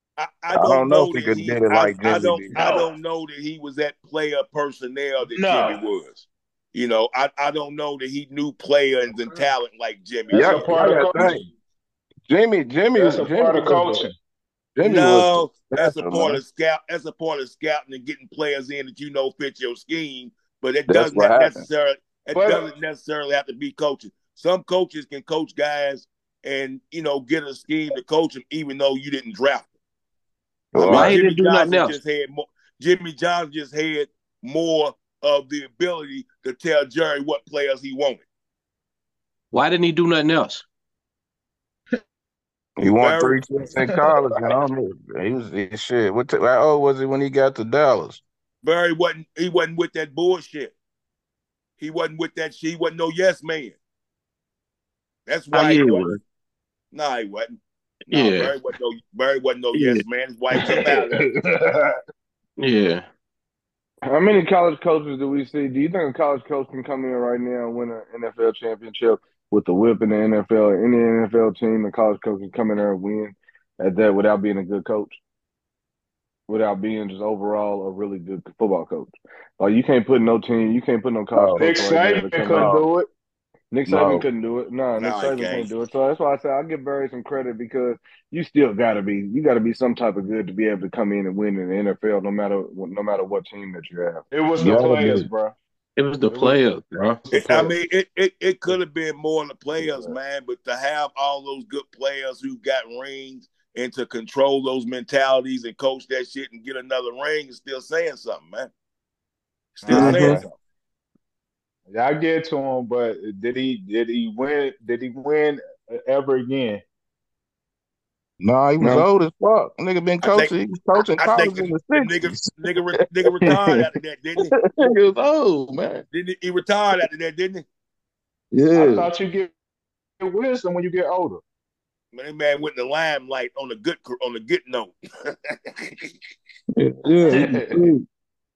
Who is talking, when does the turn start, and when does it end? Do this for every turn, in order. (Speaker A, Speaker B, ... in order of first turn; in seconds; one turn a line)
Speaker A: 0.2-11.1
Speaker B: 0.5-2.7
Speaker C: 2.5-2.9
Speaker C: 5.2-5.8
Speaker C: 10.3-11.5
Speaker B: 10.3-11.4
Speaker B: 12.3-14.1
Speaker C: 12.9-14.1
Speaker B: 14.8-16.4
Speaker A: 14.8-29.7
Speaker B: 20.9-21.6
Speaker C: 22.3-22.7
Speaker B: 30.7-31.1
Speaker A: 30.7-38.2
Speaker D: 30.8-31.9
Speaker D: 39.5-40.6
Speaker B: 42.8-48.2
Speaker A: 42.8-43.4
Speaker A: 48.6-50.7
Speaker A: 51.8-53.8
Speaker A: 55.2-56.1
Speaker D: 55.5-56.2
Speaker A: 56.9-61.2
Speaker D: 58.1-58.5
Speaker D: 59.7-60.0
Speaker D: 60.6-61.0
Speaker D: 62.6-63.1
Speaker E: 64.1-75.2
Speaker E: 76.5-82.8
Speaker B: 81.3-81.7
Speaker C: 81.6-83.1
Speaker B: 82.5-82.9
Speaker E: 83.7-94.2
Speaker B: 83.8-84.2
Speaker A: 84.9-85.7
Speaker C: 94.3-95.5
Speaker B: 94.6-95.2
Speaker D: 96.0-97.2
Speaker C: 96.3-96.6
Speaker A: 97.3-108.7
Speaker C: 99.8-100.1
Speaker A: 109.8-110.4
Speaker C: 109.8-110.5
Speaker C: 111.9-116.8
Speaker B: 118.4-123.6
Speaker E: 118.8-119.1
Speaker A: 120.2-124.5
Speaker B: 124.4-126.0
Speaker A: 126.1-127.7
Speaker B: 128.5-129.1
Speaker C: 128.7-129.5
Speaker C: 130.2-131.4
Speaker A: 132.1-136.1
Speaker B: 136.8-138.0
Speaker C: 137.2-137.7